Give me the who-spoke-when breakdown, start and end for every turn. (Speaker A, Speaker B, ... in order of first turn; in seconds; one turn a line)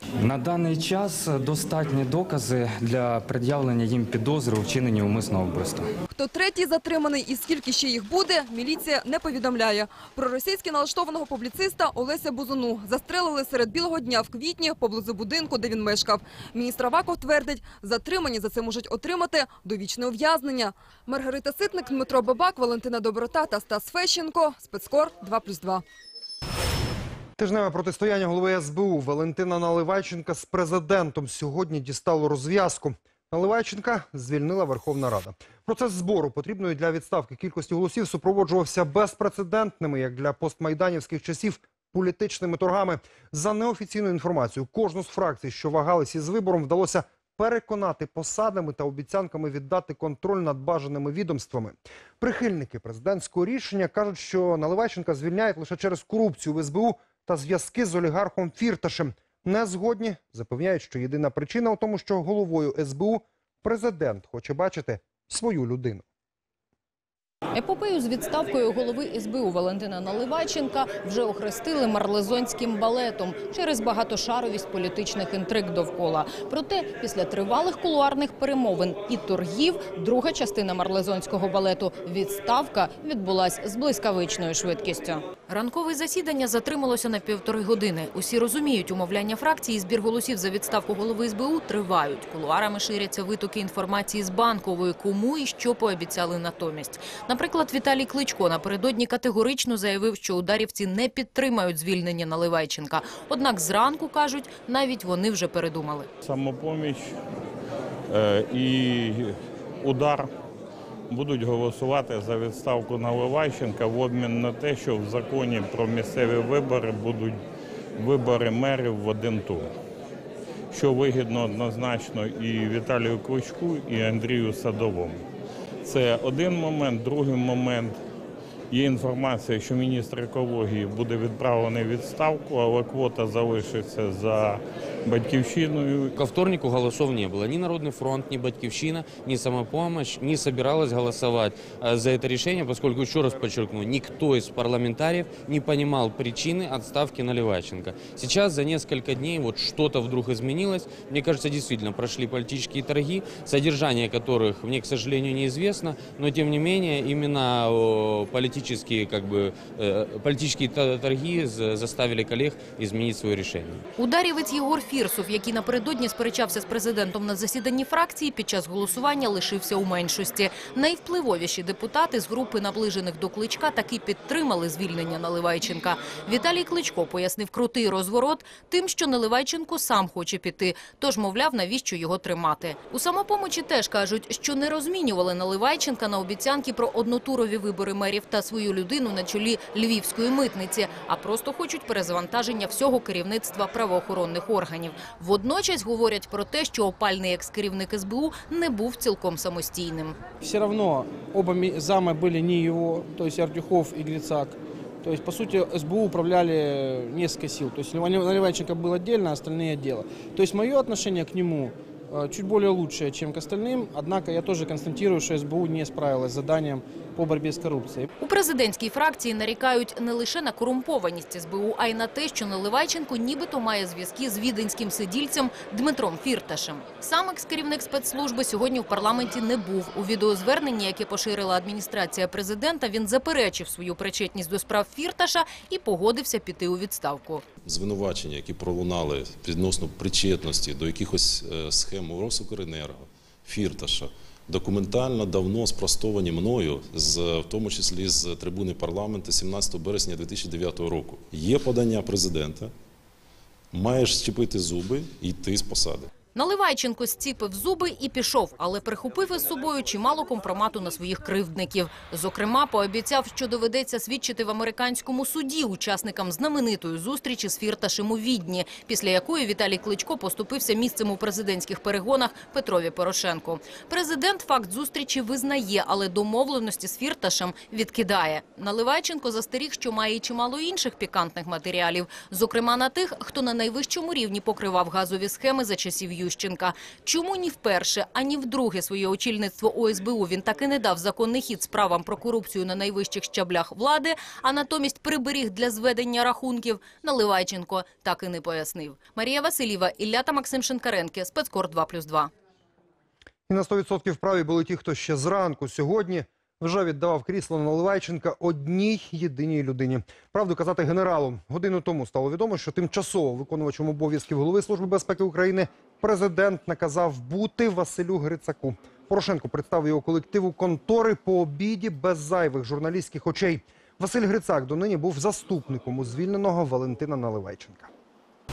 Speaker A: 0.2-5.9
Speaker B: 6.1-25.8
Speaker C: 27.4-66.0
Speaker D: 67.5-106.1
Speaker E: 106.2-107.1
Speaker E: 108.1-110.3
Speaker E: 111.1-117.4
Speaker E: 118.0-119.7
Speaker E: 120.7-125.2
Speaker E: 125.8-128.0
Speaker E: 128.7-136.2
Speaker F: 136.2-163.8
Speaker D: 164.0-200.2
Speaker G: 200.4-218.1
Speaker D: 218.2-237.4
Speaker H: 237.6-252.7
Speaker H: 253.7-256.1
Speaker D: 256.3-302.3
Speaker C: 303.5-327.9